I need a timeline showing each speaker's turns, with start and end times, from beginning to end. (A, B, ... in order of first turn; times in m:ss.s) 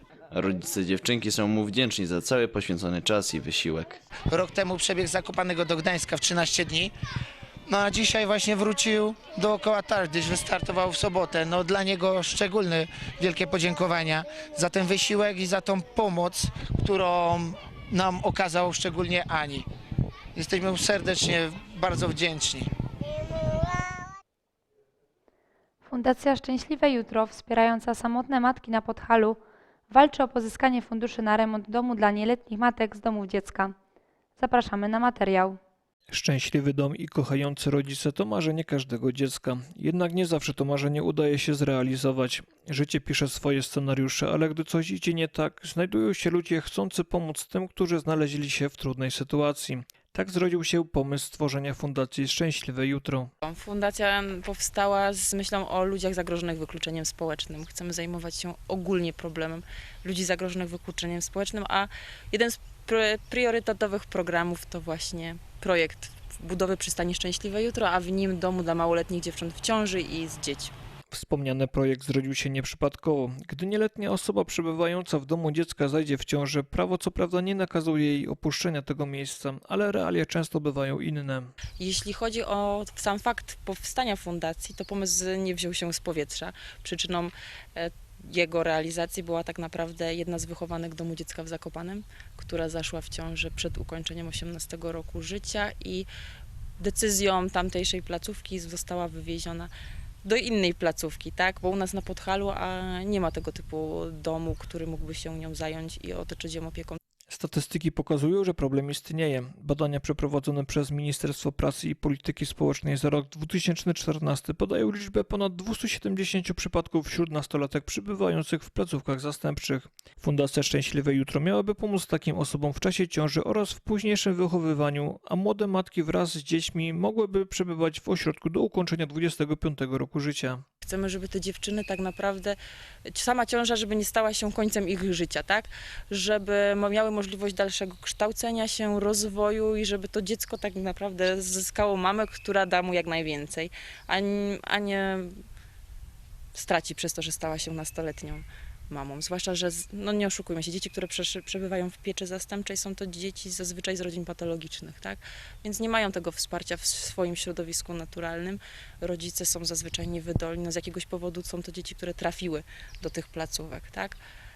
0:00.3-0:04.0 A
0:04.3-0:06.9 B
0:07.7-0:19.7 B
0:20.4-0:22.7 B
0:25.8-0:33.8 C
0:34.4-0:35.6 C
0:36.1-0:53.3 D
0:53.4-1:10.7 E
1:11.1-1:21.5 D
1:21.8-1:36.1 E
1:36.8-1:39.7 E
1:40.2-1:47.0 E
1:47.3-2:10.6 D
2:10.8-2:12.6 E
2:13.1-2:25.4 E
2:26.6-2:44.2 E